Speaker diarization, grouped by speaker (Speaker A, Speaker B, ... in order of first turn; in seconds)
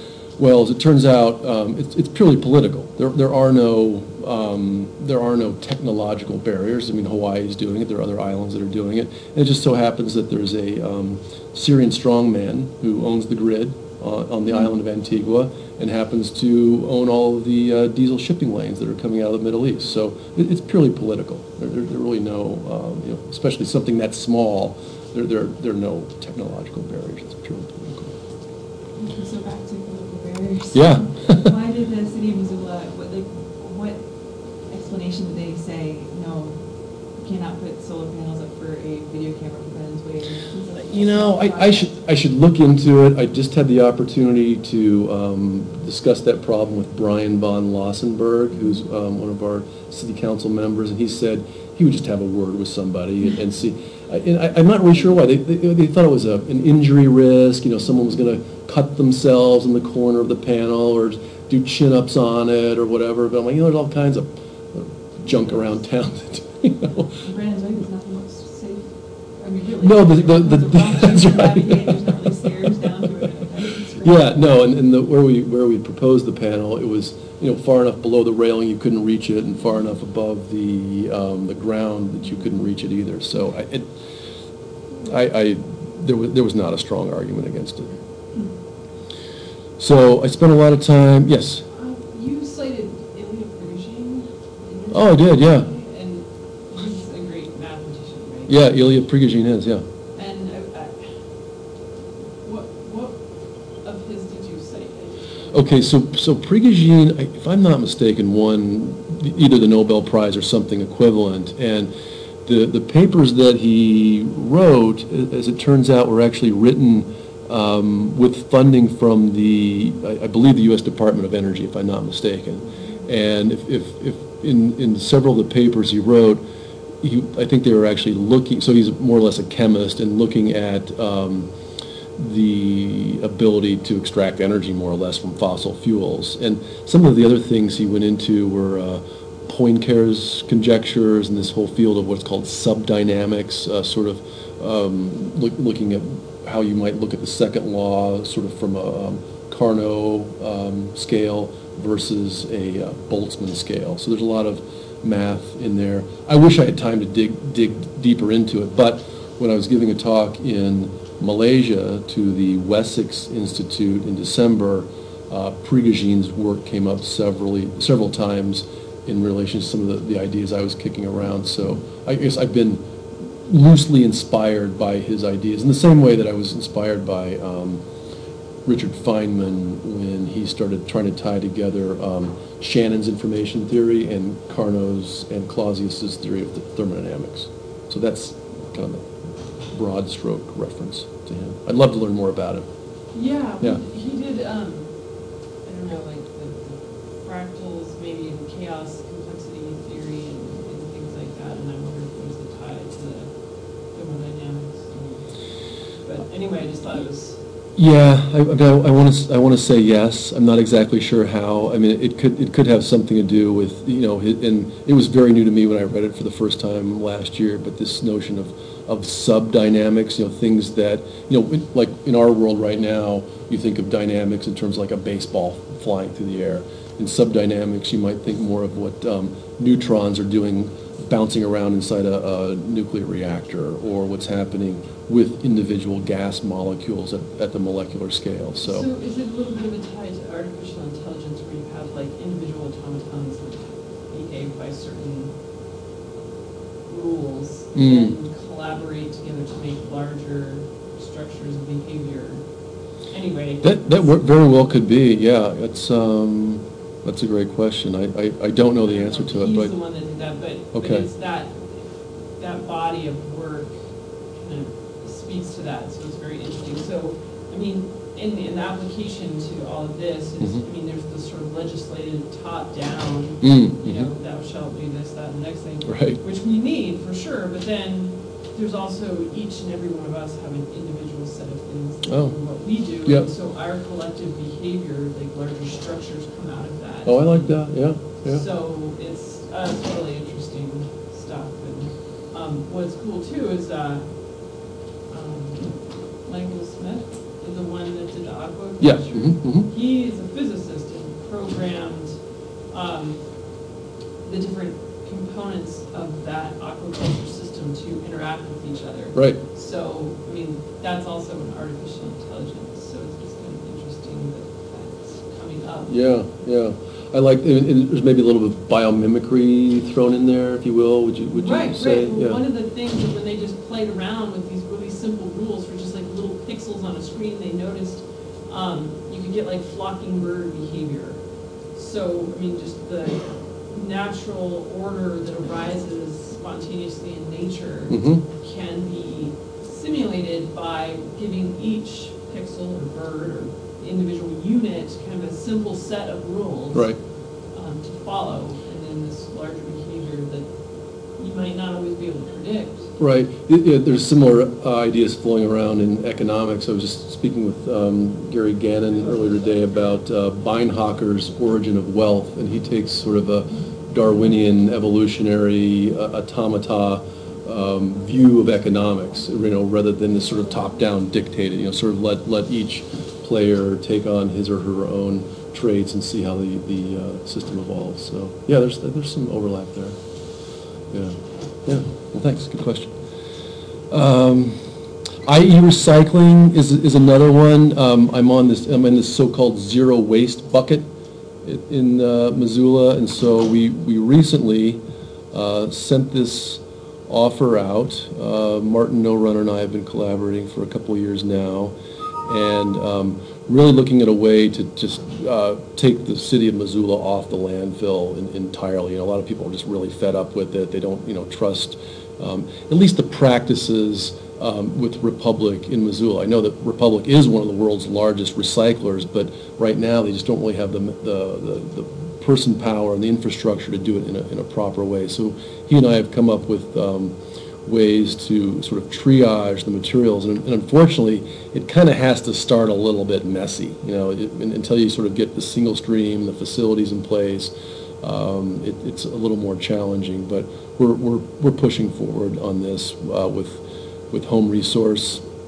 Speaker A: 0.4-28.1, 30.7-31.5, 40.7-67.1, 69.8-72.3, 74.0-83.9, 85.0-88.0, 89.8-91.6, 94.9-95.7, 98.5-99.8, 105.5-111.9, 112.4-126.4, 127.0-131.5, 132.2-172.8, 173.4-177.8, 178.6-192.7, 207.7-238.9, 247.7-248.1, 253.6-259.8, 260.7-261.1, 270.4-270.6, 273.4-274.1, 275.8-276.2, 282.0-282.4, 283.0-283.3, 287.0-288.4, 298.8-299.7, 309.1-309.4, 315.9-322.4, 337.9-338.2, 346.7-347.0, 353.0-380.0, 380.9-382.9, 383.9-384.6, 385.2-390.9, 391.4-445.2
Speaker B: 28.9-41.9, 67.2-74.2
Speaker C: 69.5-74.0, 91.7-98.7, 100.1-101.4, 102.4-105.8, 193.1-207.4, 238.6-245.4, 246.8-254.3, 258.7-303.7, 304.2-315.9, 321.3-352.9